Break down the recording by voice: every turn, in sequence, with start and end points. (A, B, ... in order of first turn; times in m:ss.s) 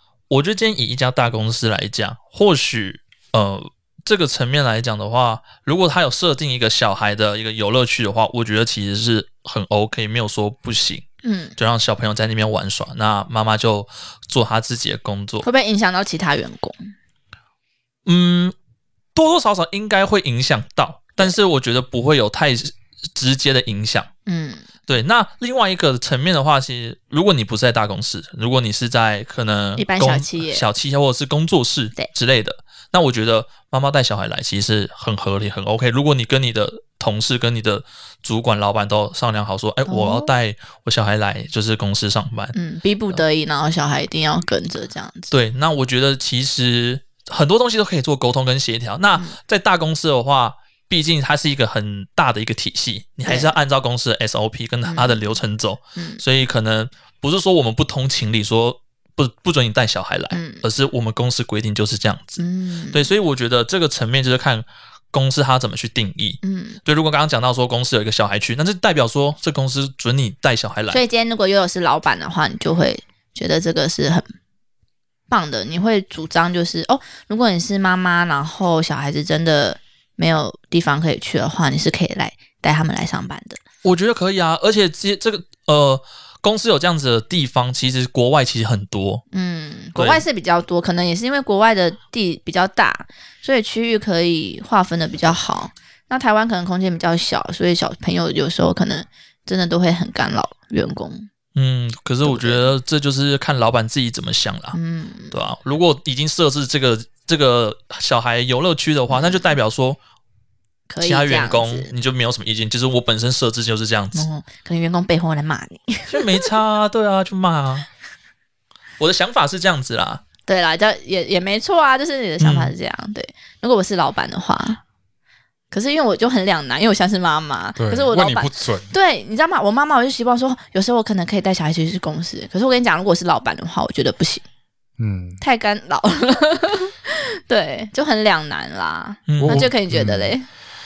0:00.3-0:15.4 A
0:11.2-0:11.5 B
0:15.4-0:16.8 B
0:18.0-0:18.5 A
0:19.1-0:24.1 A
0:24.3-0:24.7 B
0:24.9-0:42.5 A
0:29.8-0:30.6 B
0:39.9-0:40.3 B
0:42.5-0:45.3 B
0:45.3-1:11.0 A
0:53.2-0:53.5 B
0:54.8-0:55.2 B
0:56.0-0:56.2 B
1:00.3-1:00.6 B
1:02.4-1:03.1 B
1:06.4-1:06.8 B
1:10.9-1:14.3 B
1:15.3-1:23.6 B
1:23.8-1:29.2 A
1:29.3-1:41.3 B
1:30.0-1:30.2 A
1:41.5-1:44.8 A
1:42.2-1:42.7 B
1:44.7-1:45.5 B
1:45.3-1:50.0 A
1:49.1-1:49.5 B
1:50.9-1:51.9 B
1:51.0-1:54.3 A
1:54.1-1:56.5 B
1:56.1-1:57.9 A
1:59.0-2:00.2 A
2:00.5-2:04.8 B
2:02.4-2:02.7 A
2:05.7-2:14.4 B
2:07.8-2:08.9 C
2:15.0-2:15.4 C
2:15.4-2:20.5 B
2:19.3-2:19.7 A
2:19.4-2:20.3 C